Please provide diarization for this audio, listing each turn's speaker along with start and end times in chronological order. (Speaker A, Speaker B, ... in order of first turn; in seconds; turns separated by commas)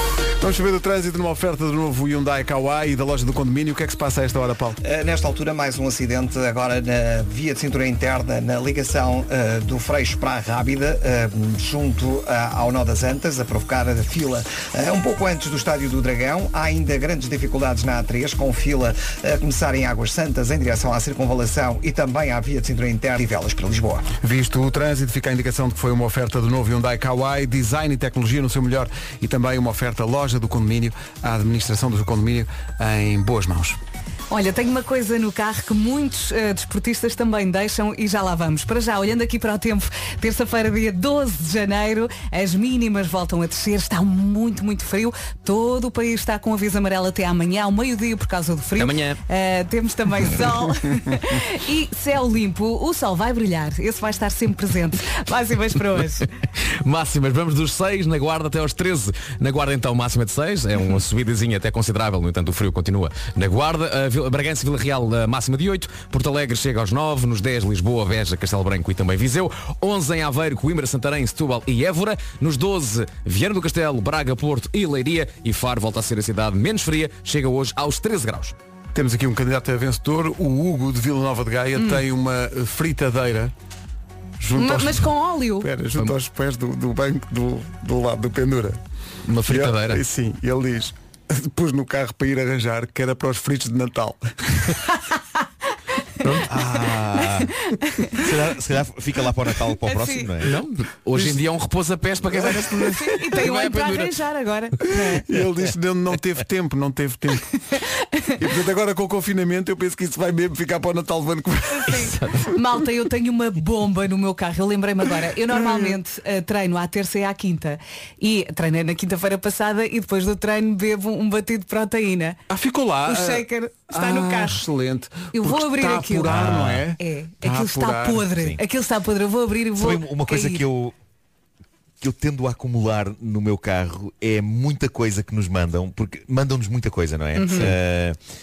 Speaker A: 0.4-4.8, Speaker B: 4.8-24.1, Speaker A: 24.2-33.8, Speaker C: 34.3-56.3, Speaker D: 48.8-49.2, Speaker D: 56.6-78.5, Speaker A: 78.9-83.5, Speaker A: 84.4-88.8, Speaker C: 84.5-85.7, Speaker D: 89.2-90.0, Speaker A: 89.4-94.8, Speaker E: 96.5-97.5, Speaker C: 97.7-98.2, Speaker E: 98.1-100.5, Speaker C: 99.8-100.3, Speaker D: 100.4-104.1, Speaker A: 101.1-101.4, Speaker A: 102.3-103.0, Speaker C: 102.9-105.2, Speaker A: 104.8-107.6, Speaker C: 107.8-108.3, Speaker A: 108.4-112.3, Speaker C: 111.7-122.4, Speaker A: 115.5-115.9, Speaker A: 122.5-128.3, Speaker C: 123.0-124.6, Speaker C: 125.3-130.6, Speaker E: 126.3-126.8, Speaker E: 128.3-128.6, Speaker E: 129.8-130.9, Speaker E: 132.0-138.2, Speaker C: 137.3-137.7